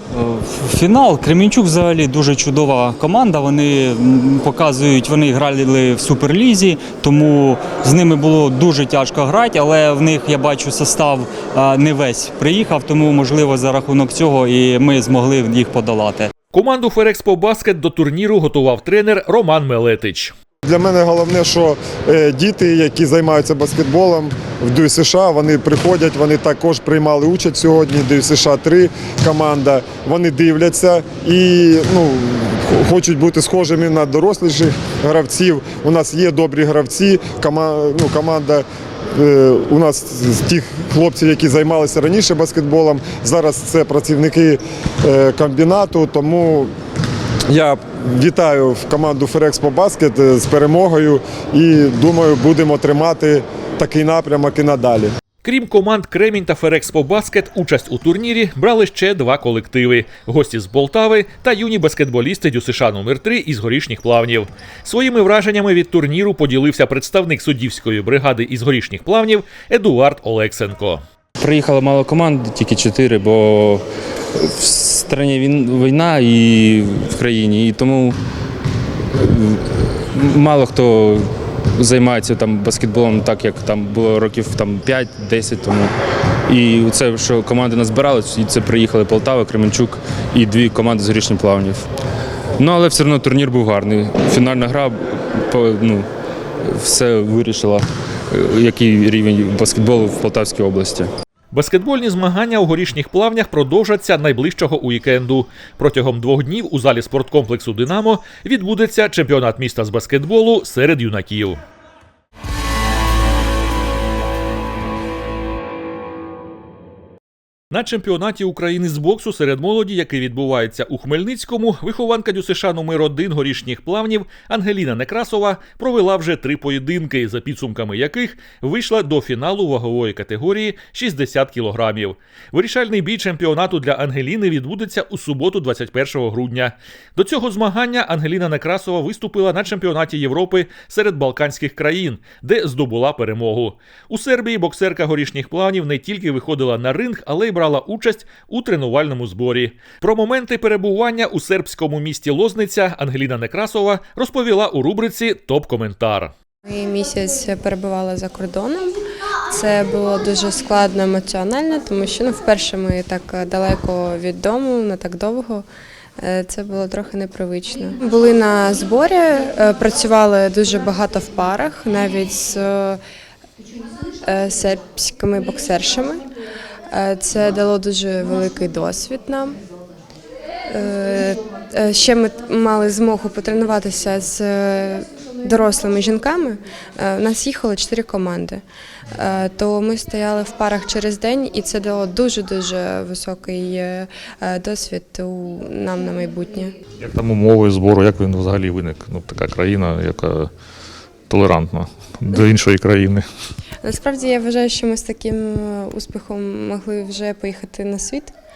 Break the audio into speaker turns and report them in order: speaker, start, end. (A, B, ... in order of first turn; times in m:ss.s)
0:00.2-0:16.3 A
0:16.5-0:20.4 B
0:20.6-0:46.7 C
0:47.5-0:55.1 C
0:55.4-1:11.0 B
1:11.4-1:18.2 D
1:19.1-1:25.9 D
1:26.5-1:31.9 D
1:32.6-1:36.1 D
1:36.6-1:41.1 D
1:41.5-1:51.6 B
1:57.7-2:36.3 B
2:36.7-2:39.0 E
2:39.5-2:45.7 E
2:46.2-2:53.0 E
2:54.2-2:56.3 E
2:56.9-2:59.6 E
3:00.7-3:16.7 E
3:17.0-3:20.5 F
3:21.3-3:23.3 F
3:23.8-3:28.3 E